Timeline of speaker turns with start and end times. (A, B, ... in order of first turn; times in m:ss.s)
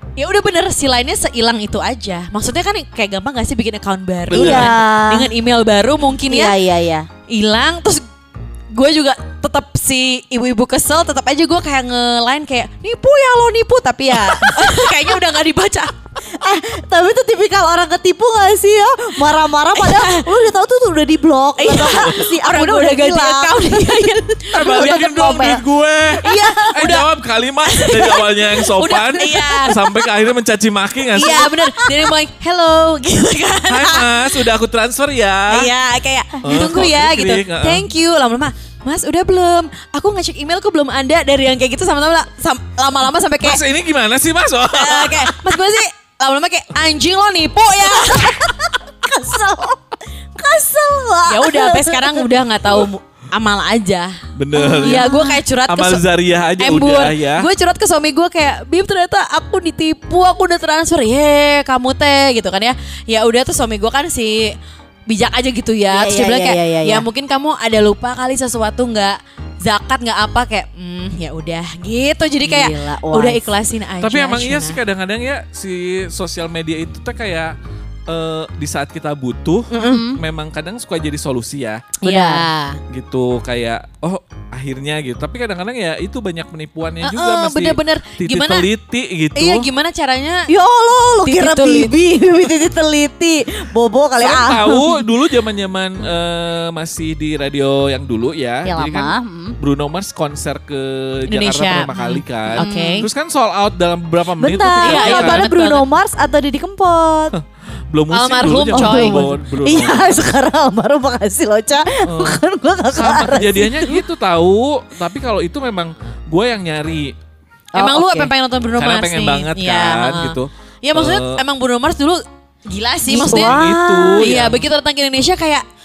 0:00.2-0:06.6 A
0:04.3-0:04.7 B
0:04.3-0:05.3 C
0:06.3-0:07.1 C
0:07.3-0:08.0 A
0:08.7-0:15.9 A
0:14.3-0:15.0 C
0:16.4-0:25.6 C
0:19.7-0:20.2 A
0:21.6-0:25.5 A
0:24.5-0:31.5 B
0:26.2-0:27.0 C
0:26.2-0:27.0 A
0:27.7-0:29.8 A
0:31.2-0:34.1 A
0:31.2-0:32.1 C
0:33.7-0:35.7 B
0:35.5-0:43.6 A
0:36.4-0:37.9 B
0:43.4-0:45.4 B
0:44.7-0:48.5 A
0:47.8-0:49.8 C
0:50.4-0:52.2 C
0:51.3-0:54.2 A
0:54.4-0:55.1 B
0:54.5-0:55.4 C
0:54.8-0:56.0 A
0:55.7-0:57.4 B
0:56.6-1:04.5 A
1:05.1-1:14.8 A
1:05.9-1:07.0 C
1:12.4-1:13.5 C
1:14.0-1:17.5 B
1:18.1-1:21.9 B
1:19.7-1:20.1 A
1:19.8-1:20.2 C
1:22.0-1:22.8 A
1:22.0-1:22.4 C
1:22.9-1:29.6 B
1:27.0-1:28.7 A
1:29.4-1:30.5 A
1:30.5-1:35.0 C
1:31.2-1:31.9 A
1:34.2-1:45.4 B
1:38.6-1:39.6 C
1:41.3-1:43.0 A
1:42.6-1:43.0 C
1:44.4-1:47.3 C
1:44.8-1:45.8 A
1:47.3-1:50.2 B
1:48.1-1:49.3 A
1:48.7-1:54.0 C
1:52.0-1:52.4 B
1:52.9-1:57.1 B
1:57.7-1:58.3 C
1:57.8-2:03.6 A
1:58.8-2:01.4 B
2:03.1-2:04.3 C
2:03.2-2:04.6 B
2:04.2-2:05.6 A